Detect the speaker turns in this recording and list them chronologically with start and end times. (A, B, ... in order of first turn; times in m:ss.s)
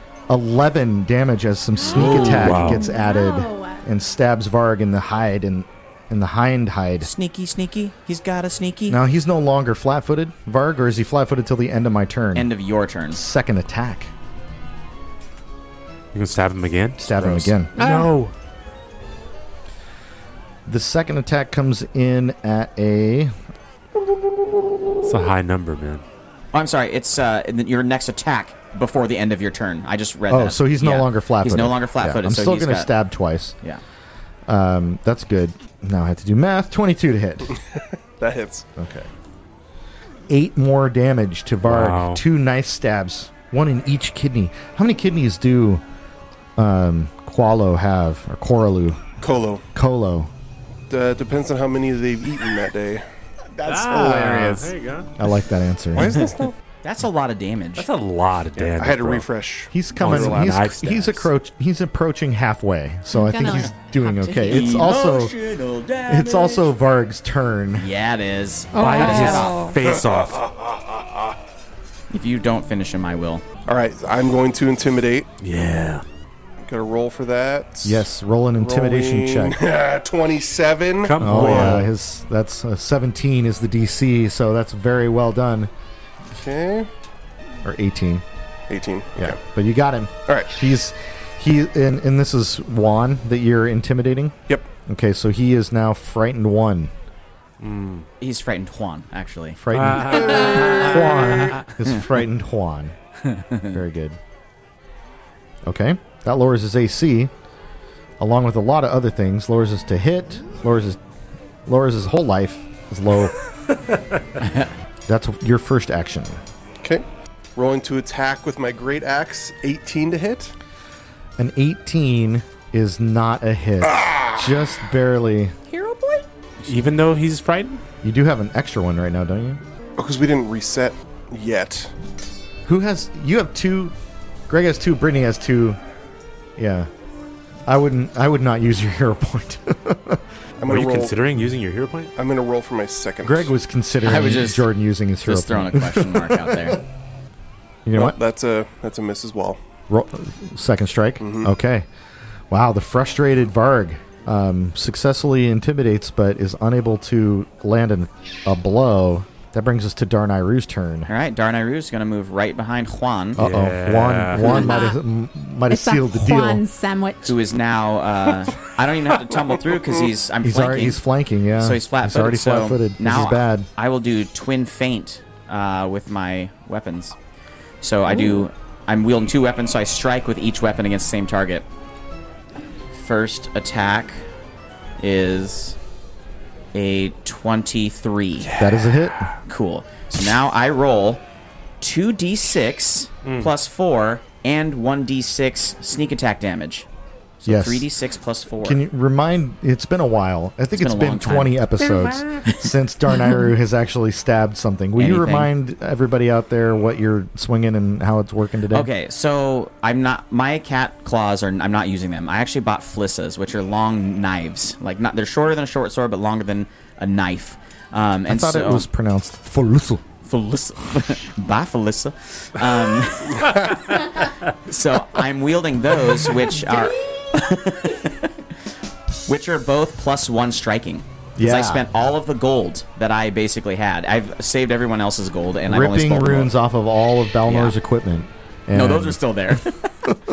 0:00.3-0:07.1 A
0:01.8-0:02.6 B
0:01.9-0:02.9 C
0:02.0-0:03.8 D
0:07.0-0:09.0 B
0:08.9-0:12.5 A
0:12.4-0:13.2 B
0:13.1-0:14.1 A
0:16.1-0:17.0 C
0:17.0-0:17.5 B
0:17.0-0:17.7 A
0:17.8-0:18.3 C
0:17.8-0:18.1 D
0:20.7-0:23.3 A
0:25.0-0:26.0 C
0:26.5-0:32.9 B
0:30.3-0:33.6 A
0:34.5-0:37.6 A
0:38.2-0:38.7 E
0:38.8-0:39.1 A
0:40.3-0:45.8 A
0:41.6-0:42.2 C
0:46.6-0:49.1 A
0:49.2-0:49.6 E
0:49.7-0:50.3 A
0:50.9-0:53.0 E
0:53.5-0:54.7 B
0:53.6-0:55.1 C
0:55.2-0:56.2 A
0:56.0-0:56.5 E
0:56.0-0:56.5 C
0:56.8-0:57.9 B
0:57.8-0:59.3 C
0:58.6-1:00.7 E
0:59.7-1:05.4 A
1:00.0-1:01.3 C
1:03.1-1:04.9 D
1:04.4-1:06.7 B
1:06.1-1:07.9 A
1:07.8-1:09.7 B
1:08.7-1:10.4 C
1:08.8-1:09.8 D
1:09.9-1:11.0 E
1:12.1-1:13.4 B
1:13.7-1:15.3 E
1:15.4-1:16.0 C
1:16.6-1:21.8 E
1:17.8-1:19.6 A
1:21.0-1:21.9 C
1:21.2-1:25.7 A
1:26.3-1:26.9 E
1:27.6-1:28.2 A
1:28.7-1:29.4 E
1:29.2-1:36.9 A
1:37.6-1:38.1 C
1:38.2-1:39.6 B
1:39.6-1:43.0 A
1:39.7-1:41.6 C
1:40.2-1:40.5 E
1:40.4-1:42.0 B
1:43.3-1:43.7 B
1:43.7-1:44.2 A
1:45.7-1:47.3 A
1:48.2-1:51.0 A
1:51.7-1:53.4 A
1:55.1-1:56.4 A
1:57.6-2:00.5 E
2:01.4-2:05.6 A
2:04.0-2:04.4 E
2:05.7-2:06.3 D
2:06.6-2:07.8 C
2:08.0-2:09.6 A
2:10.0-2:11.9 E
2:12.7-2:13.9 A
2:14.5-2:15.8 A
2:16.6-2:16.9 A
2:17.7-2:20.2 A
2:20.6-2:21.2 E
2:20.6-2:22.1 C
2:22.2-2:23.5 E
2:23.2-2:26.8 A
2:24.0-2:24.7 B
2:25.2-2:26.8 B
2:27.9-2:28.2 A
2:27.9-2:29.6 E
2:29.9-2:31.9 A
2:31.2-2:31.5 E
2:32.5-2:41.1 A
2:41.1-2:43.4 B
2:43.4-2:46.6 A
2:43.4-2:44.7 C
2:44.4-2:45.0 D
2:44.4-2:44.7 B
2:45.7-2:47.4 D
2:47.2-2:51.0 B
2:50.4-2:53.7 A
2:51.6-2:57.2 B
2:57.8-3:01.7 B
3:02.9-3:04.2 B
3:05.0-3:05.8 B
3:06.7-3:08.5 B
3:08.4-3:09.4 C
3:08.6-3:09.3 A
3:09.5-3:11.2 B
3:11.8-3:16.9 B
3:13.2-3:13.5 C
3:17.4-3:18.8 B
3:17.5-3:17.9 A
3:18.6-3:28.9 A
3:20.8-3:22.6 B
3:25.0-3:25.5 B
3:28.7-3:38.9 B
3:38.3-3:40.0 A
3:40.2-3:48.5 B
3:49.3-3:56.5 B
3:51.4-3:51.8 A
3:55.7-3:59.2 A
3:57.5-3:57.7 B
3:58.7-3:59.9 B